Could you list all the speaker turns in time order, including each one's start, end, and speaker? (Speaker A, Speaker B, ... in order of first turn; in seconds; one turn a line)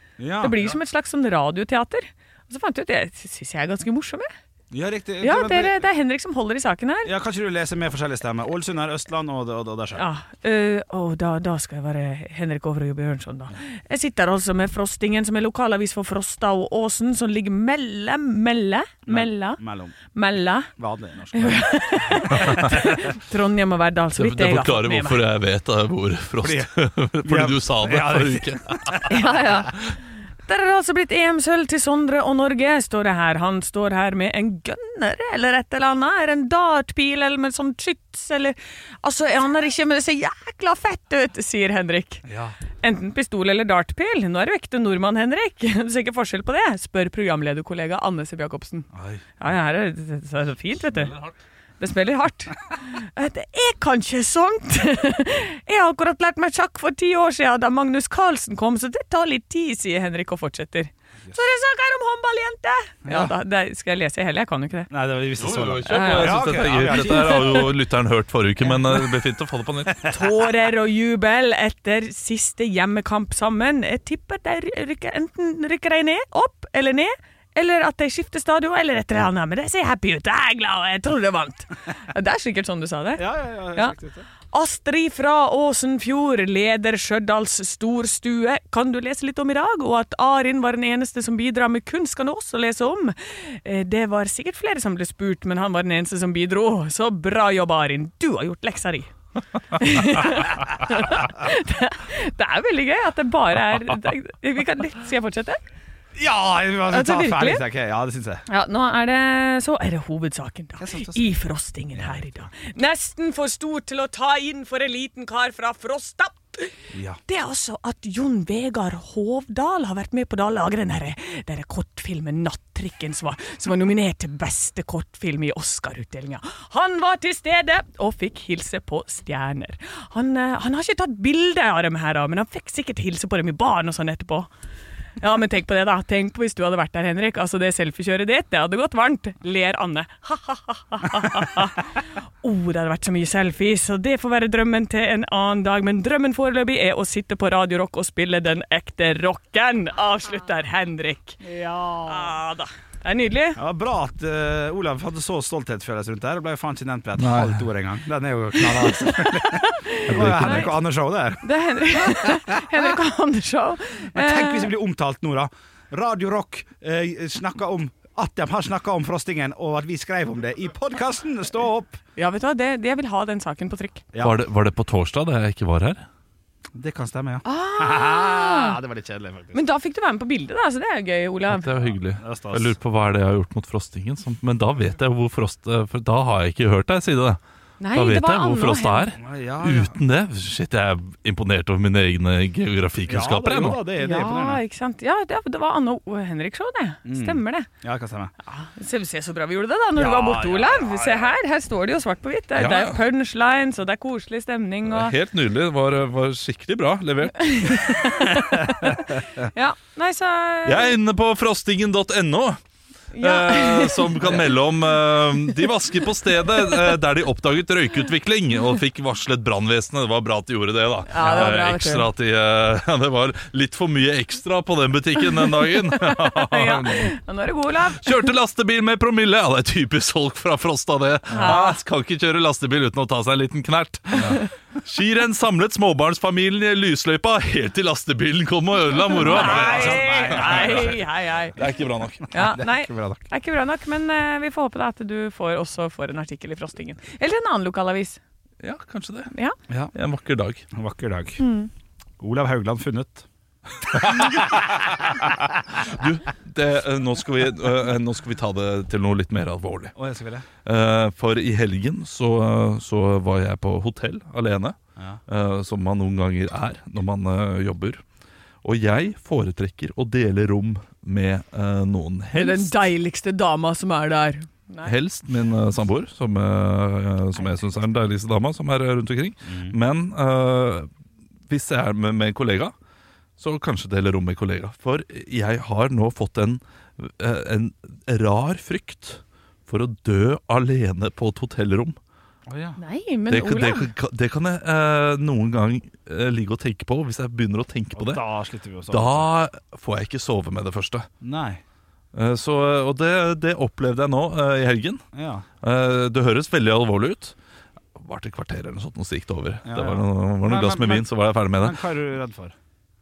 Speaker A: 0.2-0.6
Speaker B: 0.4-4.3
Speaker A: 4.7-5.8
Speaker B: 5.2-7.1
Speaker A: 7.0-10.1
Speaker B: 9.9-19.6
Speaker A: 19.1-20.0
Speaker B: 20.1-20.7
Speaker A: 20.8-22.8
Speaker B: 21.3-25.3
Speaker C: 24.2-29.2
Speaker A: 26.4-26.7
Speaker A: 27.2-29.2
Speaker B: 29.1-42.3
Speaker A: 42.3-42.5
Speaker B: 42.8-51.1
Speaker A: 49.0-49.2
Speaker C: 50.9-51.4
Speaker B: 51.8-64.9
Speaker A: 63.0-63.3
Speaker A: 64.9-67.6
Speaker C: 65.4-70.1
Speaker B: 65.9-67.8
Speaker B: 68.7-69.1
Speaker B: 70.0-83.9
Speaker A: 83.2-84.3
Speaker B: 84.5-99.1
Speaker B: 99.7-105.6
Speaker A: 106.2-108.5
Speaker B: 106.9-107.6
Speaker B: 108.5-116.8
Speaker A: 110.8-111.4
Speaker A: 112.0-112.4
Speaker A: 116.9-117.2
Speaker B: 117.3-134.5
Speaker B: 135.2-153.6
Speaker A: 153.6-163.0
Speaker C: 157.2-157.7
Speaker B: 158.6-160.7
Speaker C: 160.1-160.8
Speaker B: 161.4-164.7
Speaker A: 164.1-172.0
Speaker B: 172.2-174.1
Speaker A: 174.1-174.4
Speaker C: 174.2-176.1
Speaker A: 176.7-179.6
Speaker B: 177.4-178.8
Speaker B: 179.5-181.8
Speaker C: 181.5-187.4
Speaker A: 182.2-182.8
Speaker B: 187.8-189.1
Speaker C: 187.9-193.8
Speaker A: 189.2-190.0
Speaker A: 193.1-194.6
Speaker B: 194.0-197.7
Speaker A: 197.1-198.3
Speaker B: 198.4-205.1
Speaker A: 200.0-201.3
Speaker C: 202.6-203.0
Speaker C: 204.8-208.2
Speaker B: 207.4-211.0
Speaker C: 210.7-212.6
Speaker B: 213.2-214.6
Speaker C: 213.2-227.2
Speaker B: 221.1-222.1
Speaker B: 225.2-228.3
Speaker C: 227.9-241.0
Speaker B: 231.3-231.8
Speaker B: 239.0-241.6
Speaker A: 239.2-241.0
Speaker C: 241.6-242.3
Speaker B: 242.3-248.2
Speaker A: 242.3-243.3
Speaker C: 248.6-249.3
Speaker B: 249.3-249.6
Speaker A: 249.7-249.9
Speaker C: 249.9-250.7
Speaker A: 250.7-251.4
Speaker B: 251.4-251.7
Speaker A: 252.2-255.0
Speaker C: 254.0-255.2
Speaker C: 255.8-259.9
Speaker A: 259.9-260.5
Speaker C: 260.6-264.8
Speaker C: 265.3-268.0
Speaker C: 268.6-272.8
Speaker B: 272.3-274.9
Speaker C: 274.9-280.9
Speaker A: 279.4-279.8
Speaker C: 281.5-282.7
Speaker C: 283.4-292.0
Speaker A: 292.5-292.8
Speaker B: 292.8-293.9
Speaker C: 293.3-298.2
Speaker A: 297.9-299.3
Speaker C: 298.9-301.1
Speaker A: 301.2-301.6
Speaker C: 302.1-305.0
Speaker A: 305.1-305.5
Speaker C: 305.6-307.4
Speaker C: 307.9-311.8
Speaker A: 309.6-312.6